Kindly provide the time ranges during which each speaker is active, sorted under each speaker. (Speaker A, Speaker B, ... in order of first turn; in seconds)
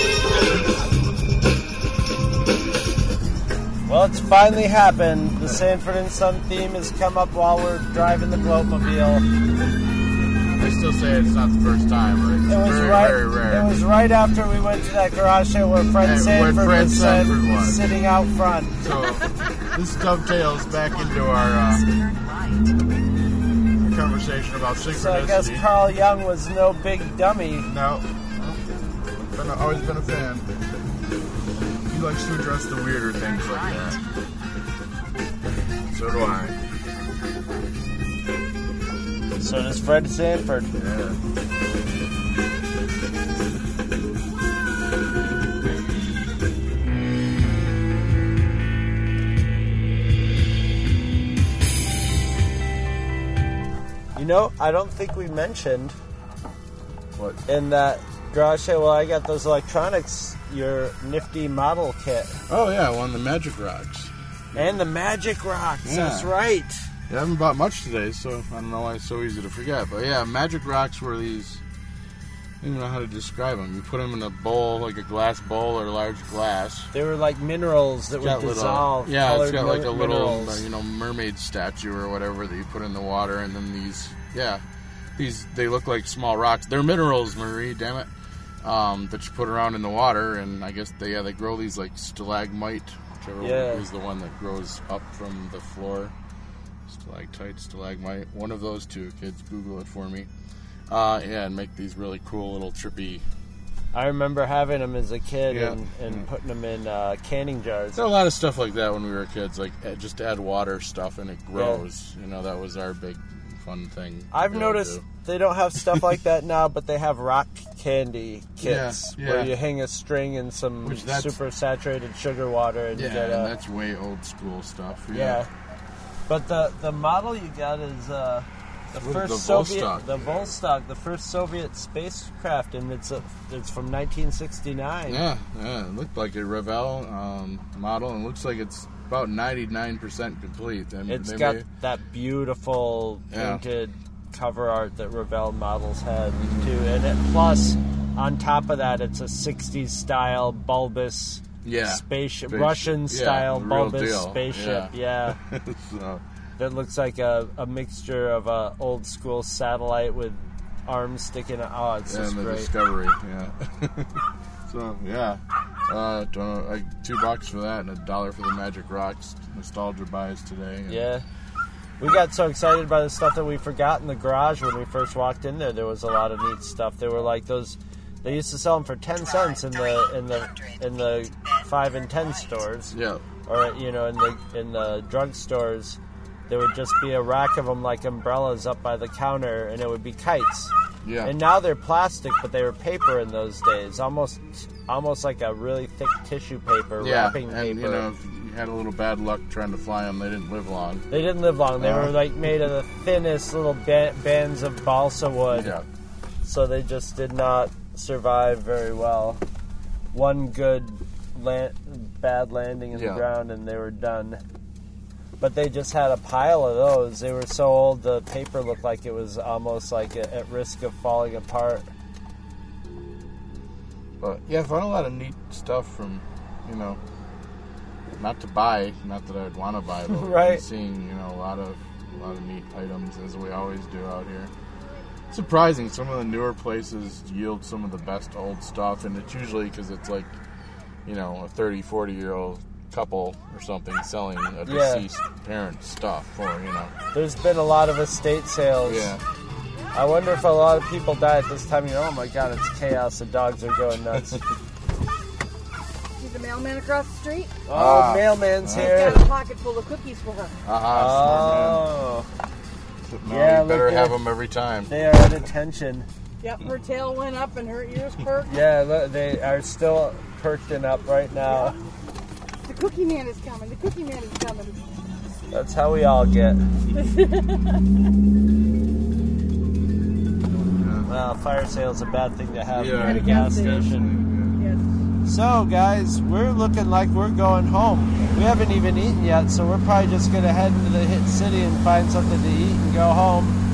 Speaker A: 3.9-9.2, 12.5-18.8, 24.9-27.7, 39.4-40.7, 54.1-56.0, 57.5-62.4, 64.5-66.9, 76.9-80.6, 93.4-93.9, 103.9-108.0, 111.5-111.8, 114.3-123.5, 125.1-125.5, 126.3-135.2, 141.1-155.4, 156.6-162.7, 170.9-171.2, 172.0-182.9, 183.5-198.1, 201.1-205.8, 206.4-209.4, 210.1-214.4, 215.4-221.9, 230.1-230.6, 244.7-245.1, 247.1-249.1, 249.9-254.4, 257.7-259.2, 260.9-262.3, 263.3-264.2, 264.9-266.1, 268.5-271.8, 275.5-276.6, 281.1-284.1, 285.3-293.6
Speaker B: 10.6-13.8, 16.0-17.8, 18.8-21.9, 23.8-25.7, 27.7-28.1, 29.1-30.5, 31.9-34.0, 35.9-36.6, 40.7-41.2, 57.1-57.4, 62.5-64.6, 65.8-66.3, 67.1-71.6, 72.6-76.9, 78.2-84.6, 85.2-88.1, 88.6-96.2, 96.9-100.3, 100.9-103.2, 105.5-106.3, 108.0-115.0, 115.8-116.2, 118.6-119.5, 120.8-121.4, 122.9-125.5, 128.9-130.5, 135.1-141.7, 143.3-143.6, 146.4-146.7, 151.6-156.2, 162.1-171.0, 182.9-183.2, 191.0-191.4, 197.0-201.1, 201.8-202.2, 205.5-205.9, 212.9-213.2, 224.2-227.0, 228.2-234.5, 235.3-240.4, 241.1-246.9, 248.8-249.2, 254.1-254.4, 257.7-259.2, 260.6-261.9, 263.0-264.9, 280.5-281.1, 282.8-284.6
Speaker C: 20.7-22.8, 33.2-34.0, 179.2-182.5
Speaker D: 256.2-257.6, 258.7-260.6, 266.4-268.6, 271.5-271.8, 272.6-274.9, 276.9-277.8, 282.9-284.0, 284.6-284.9